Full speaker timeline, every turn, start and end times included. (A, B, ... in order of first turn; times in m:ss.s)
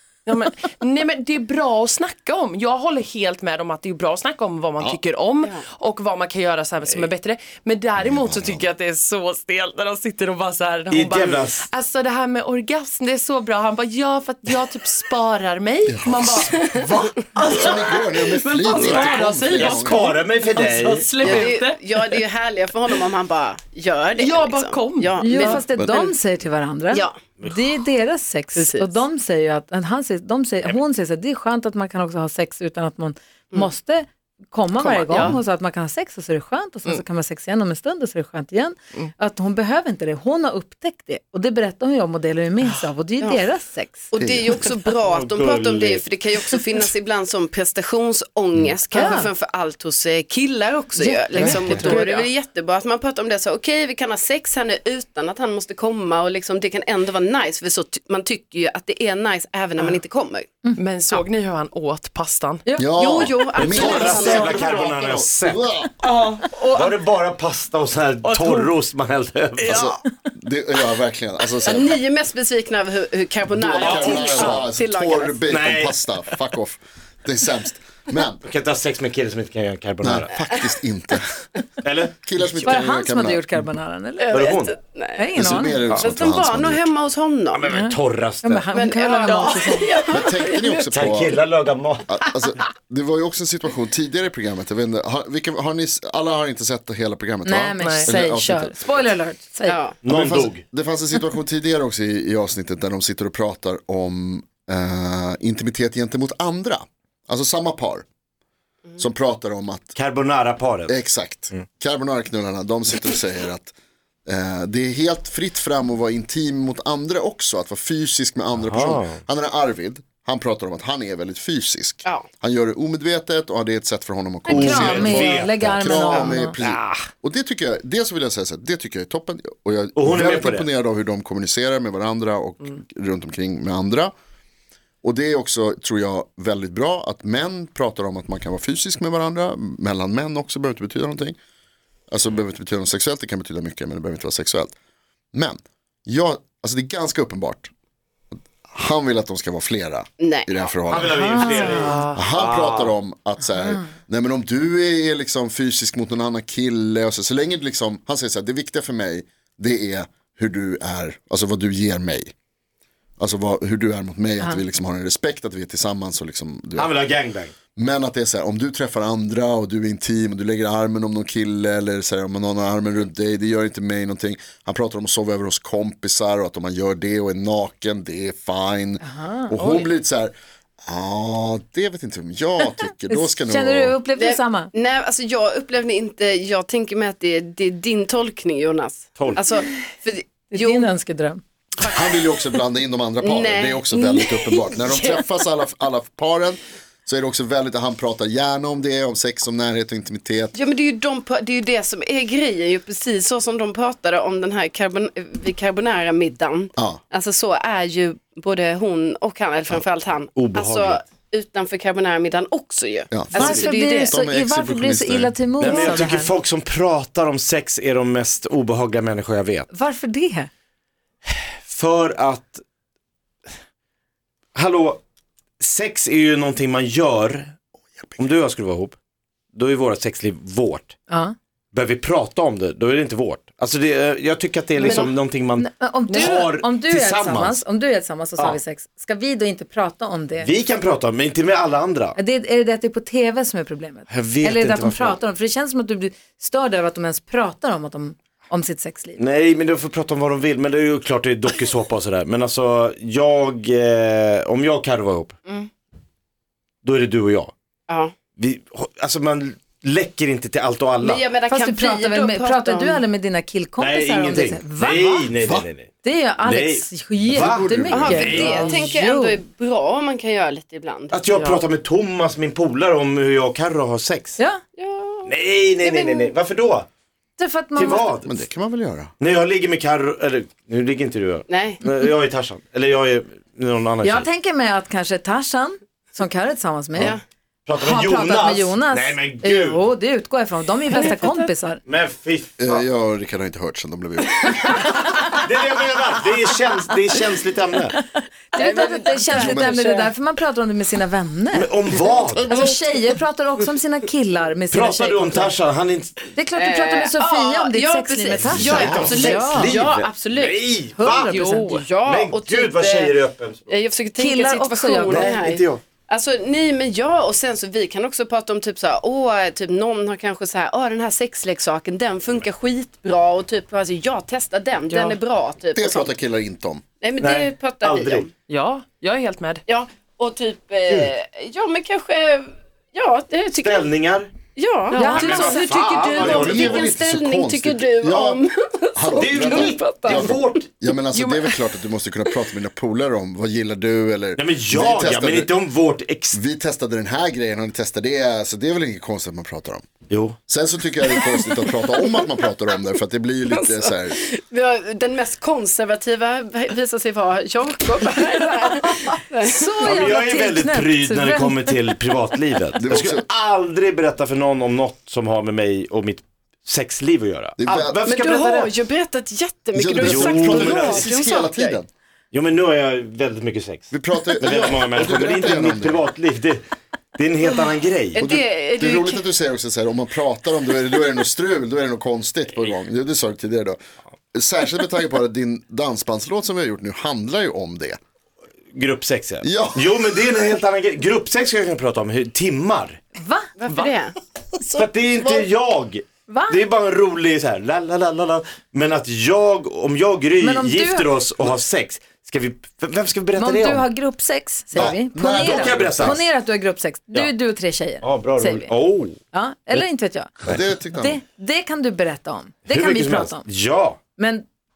0:00.2-0:22.2 A
0:08.0-0:08.7 B
0:10.9-0:11.6 C
0:15.9-0:20.2 B
0:18.7-0:21.1 C
0:21.2-0:26.1 D
0:24.1-0:25.6 A
0:25.2-0:44.1 E
0:25.6-0:25.9 B
0:26.9-0:27.2 D
0:28.5-0:29.0 D
0:35.0-0:35.4 A
0:44.1-1:01.2 D
0:44.2-0:44.7 B
0:45.0-0:46.1 C
0:48.9-0:49.3 E
0:51.0-0:52.0 E
0:51.4-0:51.9 C
0:51.7-0:52.2 A
1:00.8-1:02.6 A
1:02.6-1:02.9 E
1:02.8-1:04.8 B
1:03.0-1:05.3 D
1:03.6-1:05.7 C
1:05.4-1:05.9 B
1:06.0-1:06.9 A
1:06.7-1:09.8 C
1:08.2-1:08.7 A
1:09.6-1:10.0 A
1:09.6-1:12.0 B
1:11.6-1:15.4 D
1:13.5-1:18.4 B
1:13.7-1:14.4 C
1:15.5-1:16.0 C
1:18.4-1:20.3 C
1:20.0-1:21.5 B
1:21.8-1:22.5 C
1:22.2-1:23.7 B
1:22.6-1:24.4 E
1:24.2-1:25.3 D
1:24.3-1:24.8 C
1:25.2-1:25.8 E
1:25.3-1:26.9 B
1:25.8-1:26.1 C
1:26.0-1:27.7 D
1:27.5-1:28.7 C
1:27.7-1:29.9 E
1:28.7-1:30.8 D
1:29.2-1:29.7 C
1:30.0-1:31.4 B
1:30.9-1:32.1 C
1:32.1-1:39.1 B
1:37.4-1:39.8 E
1:37.8-1:38.1 A
1:39.7-1:40.0 D
1:40.0-1:40.6 C
1:40.0-1:48.0 B
1:49.0-1:49.9 B
1:49.9-1:51.0 C
1:50.9-1:53.7 B
1:54.2-2:14.1 B
1:58.6-1:59.2 C
2:04.4-2:06.6 E
2:04.5-2:07.0 C
2:10.0-2:10.7 C
2:15.0-2:21.4 B
2:22.1-2:24.7 B
2:25.3-2:27.7 B
2:28.6-2:42.3 B
2:30.2-2:30.5 D
2:30.9-2:33.0 C
2:31.1-2:32.0 E
2:31.4-2:31.9 A
2:43.2-2:46.9 B
2:46.7-2:47.5 C
2:47.7-3:00.3 B
2:59.0-2:59.9 E
3:00.9-3:04.0 B
3:03.0-3:04.7 E
3:04.2-3:10.9 D
3:09.2-3:09.4 C
3:10.5-3:11.4 E
3:11.8-3:12.2 D
3:11.8-3:20.5 B
3:13.2-3:15.2 D
3:20.5-3:34.2 D
3:30.3-3:31.0 C
3:33.1-3:35.7 B
3:33.3-3:36.3 E
3:35.6-3:39.7 C
3:39.7-3:40.5 E
3:41.3-3:42.6 C
3:44.5-3:45.0 C
3:45.6-3:47.5 C
3:48.2-3:49.0 C
3:49.5-3:51.0 C
3:51.1-3:51.3 E
3:51.7-3:57.6 C
3:54.8-3:55.1 D
3:54.8-4:00.5 E
3:56.1-3:56.4 A
4:00.4-4:02.2 C
4:02.2-4:09.2 E
4:04.1-4:05.2 C
4:09.2-4:15.4 C
4:16.8-4:17.5 C
4:18.4-4:21.2 C
4:21.0-4:23.0 D
4:21.5-4:25.3 E
4:23.8-4:28.8 C
4:25.4-4:25.6 B
4:26.0-4:29.4 E
4:27.2-4:28.8 B
4:27.9-4:31.6 D
4:31.1-4:34.4 C
4:31.3-4:31.6 A
4:34.8-4:36.3 D
4:35.3-4:36.9 C
4:37.4-4:38.1 E
4:37.7-4:38.3 C
4:38.1-4:39.1 B
4:39.2-4:44.3 C
4:41.5-4:41.8 D
4:44.0-4:47.2 E
4:47.0-4:47.2 D
4:47.6-4:49.8 C
4:47.8-4:51.8 E
4:50.9-4:51.5 D
4:51.8-4:52.8 C
4:52.6-4:55.1 B
4:55.1-4:58.0 C
4:58.5-5:01.7 E
4:58.6-5:00.1 D
4:59.3-4:59.8 B
5:01.5-5:02.7 C
5:02.4-5:02.7 D
5:02.4-5:05.5 E
5:04.7-5:06.3 C
5:06.3-5:09.8 E
5:06.6-5:13.2 D
5:08.4-5:11.4 C
5:08.5-5:09.2 B
5:11.0-5:11.8 E
5:11.3-5:11.8 A
5:12.0-5:13.7 C
5:13.7-5:26.1 D
5:14.2-5:15.3 E
5:15.1-5:15.8 C
5:24.9-5:25.2 A
5:25.7-5:26.8 B
5:27.0-5:28.3 D
5:27.2-5:28.3 C
5:28.5-5:29.6 A
5:29.7-5:33.9 D
5:33.6-5:34.3 C
5:34.5-5:40.3 D
5:34.9-5:35.7 A
5:35.0-5:35.7 E
5:35.1-5:36.9 C
5:36.2-5:38.4 B
5:38.9-5:45.5 B
5:39.2-5:40.7 C
5:39.6-5:40.1 A
5:41.1-5:41.5 A
5:44.4-5:46.4 C
5:46.3-5:49.8 B
5:50.1-5:50.4 C
5:50.5-5:54.2 B
5:51.8-5:52.2 D
5:53.5-6:00.1 D
5:59.5-6:01.8 E
5:59.8-6:08.7 C
6:02.7-6:03.2 B
6:07.6-6:08.0 B
6:08.0-6:11.8 D
6:09.7-6:11.9 B
6:10.0-6:11.2 C
6:12.3-6:16.6 C
6:13.9-6:16.0 B
6:17.2-6:18.2 C
6:18.1-6:19.2 D
6:18.2-6:23.8 B
6:24.3-6:28.0 B
6:28.7-6:33.0 C
6:29.4-6:29.8 B
6:33.2-6:33.9 E
6:33.6-6:35.5 D
6:34.8-6:43.9 C
6:36.3-6:36.6 E
6:40.4-6:41.1 E
6:43.4-6:48.7 E
6:44.7-6:46.2 B
6:44.7-6:46.2 C
6:48.0-6:49.2 C
6:49.3-6:53.4 E
6:50.4-6:51.2 B
6:52.7-6:54.0 C
6:54.2-6:54.4 E